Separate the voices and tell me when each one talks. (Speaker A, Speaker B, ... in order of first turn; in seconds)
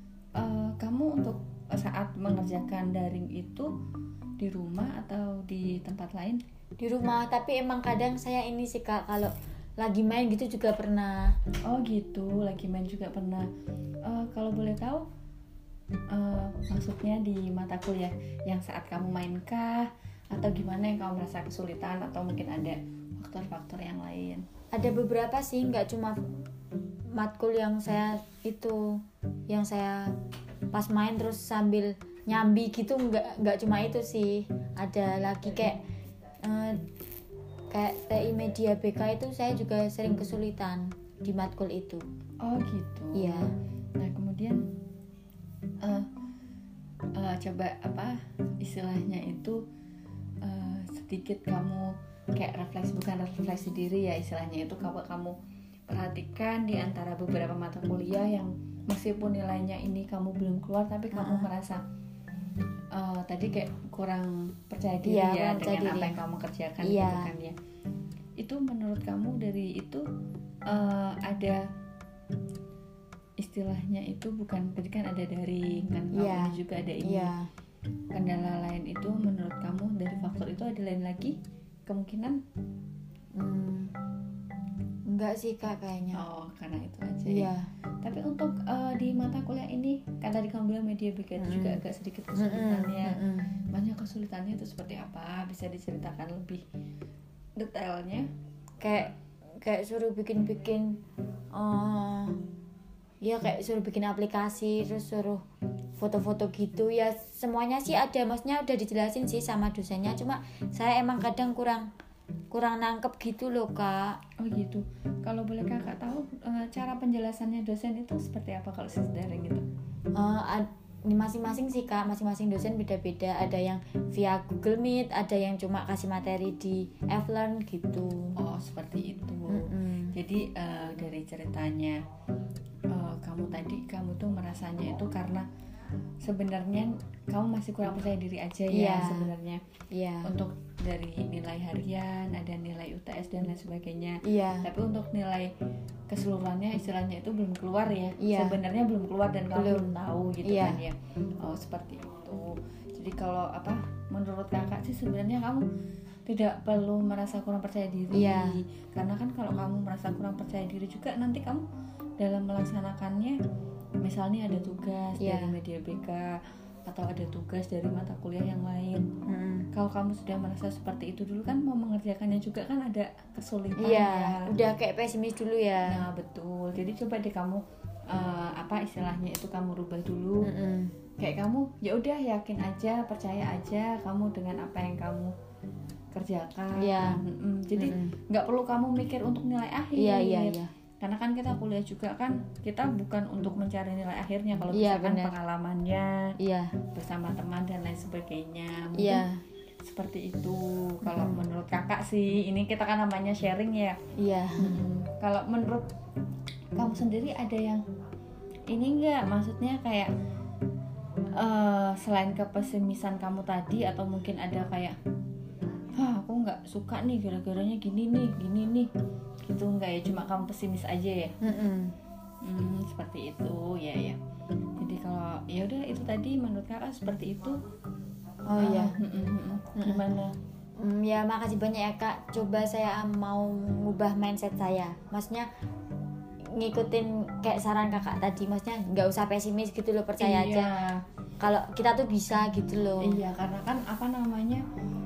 Speaker A: 0.4-3.7, 4.4-6.4, 11.7-13.5, 14.1-15.1, 16.1-24.4, 42.4-44.6, 45.8-46.1, 47.1-49.6, 50.4-55.4, 55.9-61.8, 62.9-67.5, 68.4-70.0, 70.7-71.6, 73.4-77.3, 78.1-81.3, 81.9-82.4, 86.1-87.5, 88.0-96.6, 97.6-98.3, 114.4-119.6, 128.4-132.0, 132.9-135.4, 136.2-139.6, 140.2-145.5, 146.1-155.7, 156.2-161.6, 162.2-163.4, 164.0-166.3, 166.8-169.1, 169.7-174.5, 175.8-180.5, 181.2-185.3, 186.1-196.3, 196.9-199.3, 199.8-204.0, 204.6-205.8, 206.7-207.8, 208.7-210.1, 211.3-214.9, 215.9-218.9, 219.4-221.3, 222.4-224.2, 224.8-227.6, 228.5-230.3, 240.2-241.0, 243.0-244.6
Speaker B: 6.8-11.3, 24.7-26.2, 27.1-30.1, 30.7-35.8, 36.4-36.8, 37.7-42.0, 43.1-43.5, 61.1-61.5, 65.0-66.1, 66.8-67.3, 76.1-77.5, 83.3-83.9, 85.1-86.2, 87.2-87.7, 91.4-91.8, 92.3-93.5, 98.8-101.0, 101.5-102.4, 103.2-105.4, 106.0-111.9, 112.5-114.2, 120.2-128.3, 129.5-130.1, 138.7-139.3, 139.9-140.3, 144.2-144.7, 148.2-148.6, 149.5-149.9, 150.4-150.8, 158.1-158.6, 165.2-165.6, 169.3-169.7, 173.8-176.0, 180.4-180.9, 186.8-187.2, 187.8-188.1, 189.9-190.7, 194.7-195.3, 196.4-196.7, 199.0-199.4, 201.1-201.4, 204.2-204.8, 221.4-221.9, 228.5-229.0, 229.8-230.1, 230.8-235.5, 236.5-240.7, 241.4-243.2